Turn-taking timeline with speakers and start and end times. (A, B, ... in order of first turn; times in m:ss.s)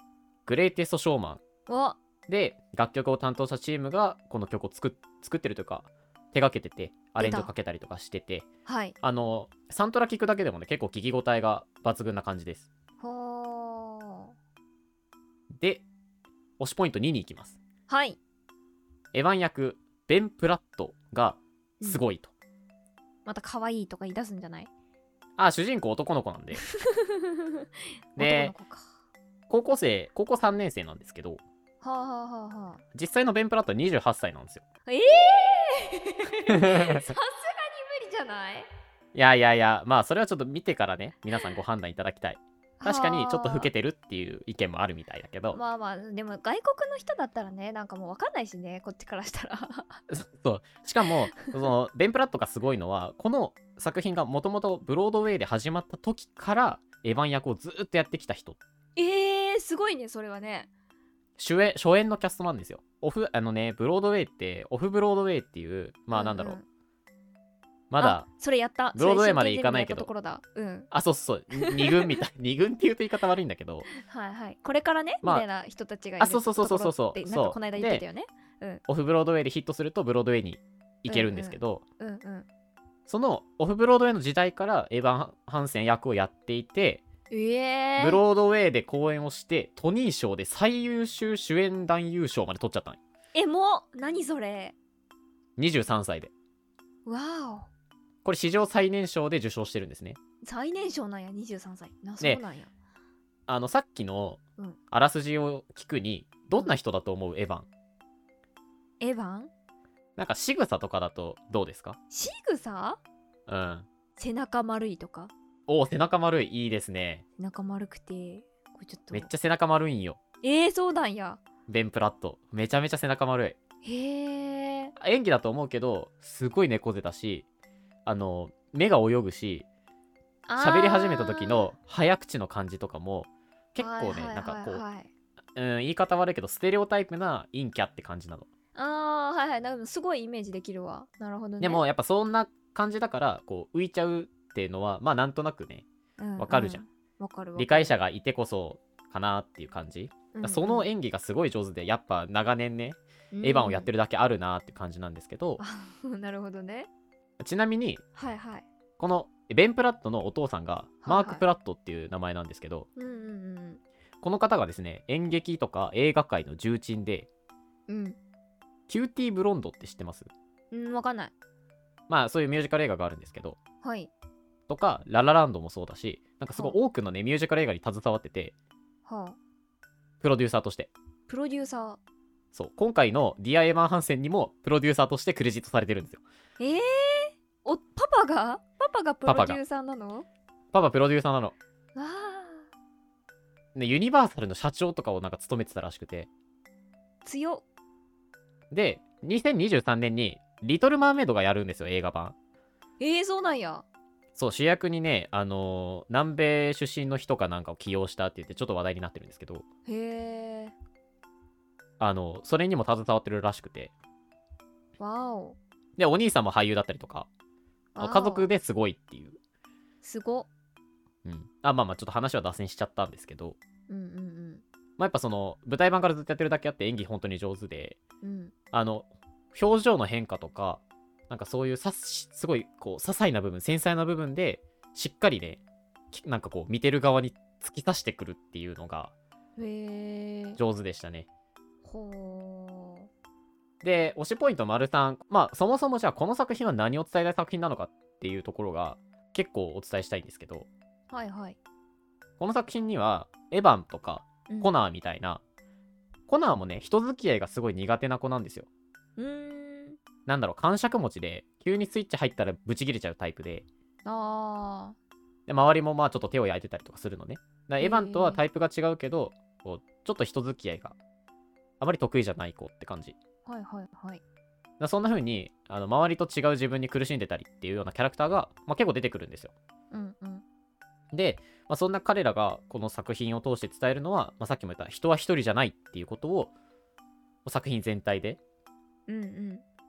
0:00.5-0:01.4 A
0:01.7-0:02.0 B
0:02.3-0:08.5 A
0:07.2-0:07.5 B
0:08.7-0:09.0 B
0:09.0-0:12.7 A
0:13.0-0:14.3 B
0:15.5-0:15.8 A
0:16.6-0:17.6 A
0:17.9-0:18.2 B
0:19.1-0:22.3 A
0:23.3-0:24.7 B
0:25.4-0:26.6 A
0:26.6-0:28.9 B
0:28.2-0:28.5 A
0:29.5-0:31.4 A
0:31.8-0:32.8 B
0:32.9-0:34.6 A
0:34.9-0:38.7 B
0:36.5-0:37.1 A
0:39.1-0:45.6 A
0:42.8-0:43.7 B
0:45.5-0:50.0 B
0:50.1-0:58.6 A
0:59.0-1:00.7 B
1:01.4-1:06.6 A
1:06.1-1:06.6 B
1:07.9-1:08.3 A
1:08.0-1:10.9 B
1:08.9-1:10.1 A
1:10.9-1:13.9 A
1:11.6-1:12.2 B
1:13.9-1:18.8 B
1:16.2-1:18.0 A
1:18.9-1:21.8 A
1:21.1-1:22.5 B
1:23.1-1:27.0 A
1:27.3-1:28.2 B
1:28.0-1:33.0 A
1:33.3-1:34.8 B
1:35.6-1:36.3 A
1:37.1-1:37.7 B
1:38.2-1:40.2 A
1:40.4-1:42.7 B
1:43.5-1:47.7 A
1:49.0-1:49.5 B
1:50.2-1:52.0 A
1:52.1-1:53.0 B
1:53.5-1:53.9 A
1:54.2-1:55.3 B
1:55.7-1:57.2 A
1:57.4-1:59.3 B
1:59.1-2:00.2 A
2:00.4-2:01.4 B
2:01.7-2:03.6 A
2:03.8-2:05.0 B
2:05.0-2:07.4 A
2:08.1-2:09.7 A
2:10.5-2:11.7 B
2:10.6-2:14.8 A
2:13.8-2:15.1 B
2:15.6-2:18.5 A
2:18.8-2:21.8 B
2:21.6-2:25.8 A
2:26.2-2:28.0 B
2:26.4-2:26.8 A
2:27.6-2:35.6 A
2:30.3-2:30.9 B
2:33.3-2:33.9 B
2:35.6-2:36.9 B
2:37.4-2:38.0 A
2:38.2-2:38.7 B
2:39.0-2:42.9 A
2:41.0-2:41.4 B
2:43.0-2:43.8 B
2:44.2-2:47.3 A
2:47.9-2:48.2 B
2:48.9-2:50.3 A
2:50.7-2:51.3 B
2:52.1-2:53.6 A
2:53.8-2:54.1 B
2:54.7-2:58.5 A
2:59.1-2:59.4 B
3:00.2-3:00.9 A
3:01.3-3:02.0 B
3:02.5-3:06.2 A
3:06.6-3:10.3 B
3:09.2-3:09.6 A
3:10.7-3:11.6 A
3:12.0-3:12.7 B
3:13.8-3:16.3 A
3:17.2-3:17.6 B
3:18.7-3:22.4 A
3:23.0-3:23.8 B
3:24.4-3:29.7 A
3:29.9-3:30.8 B
3:32.0-3:33.9 A
3:35.0-3:35.6 B
3:36.0-3:37.3 A
3:38.0-3:38.5 B
3:38.0-3:39.4 A
3:40.0-3:40.5 B
3:41.2-3:43.6 A
3:43.9-3:44.6 B
3:45.0-3:48.0 A
3:48.2-3:48.5 B
3:48.7-3:55.6 A
3:56.1-3:59.1 A
3:59.6-4:00.6 B
4:00.6-4:01.3 A
4:01.8-4:03.1 B
4:03.8-4:10.7 A
4:11.1-4:11.6 B
4:12.4-4:15.4 A
4:16.3-4:18.7 A
4:19.2-4:20.0 B
4:20.3-4:23.7 A
4:24.0-4:25.0 B
4:25.5-4:31.0 A
4:27.8-4:28.4 B
4:31.8-4:33.2 A
4:33.5-4:34.2 B
4:34.8-4:39.5 A
4:39.9-4:40.4 B
4:41.1-4:46.5 A
4:47.4-4:48.4 A
4:49.1-4:49.6 B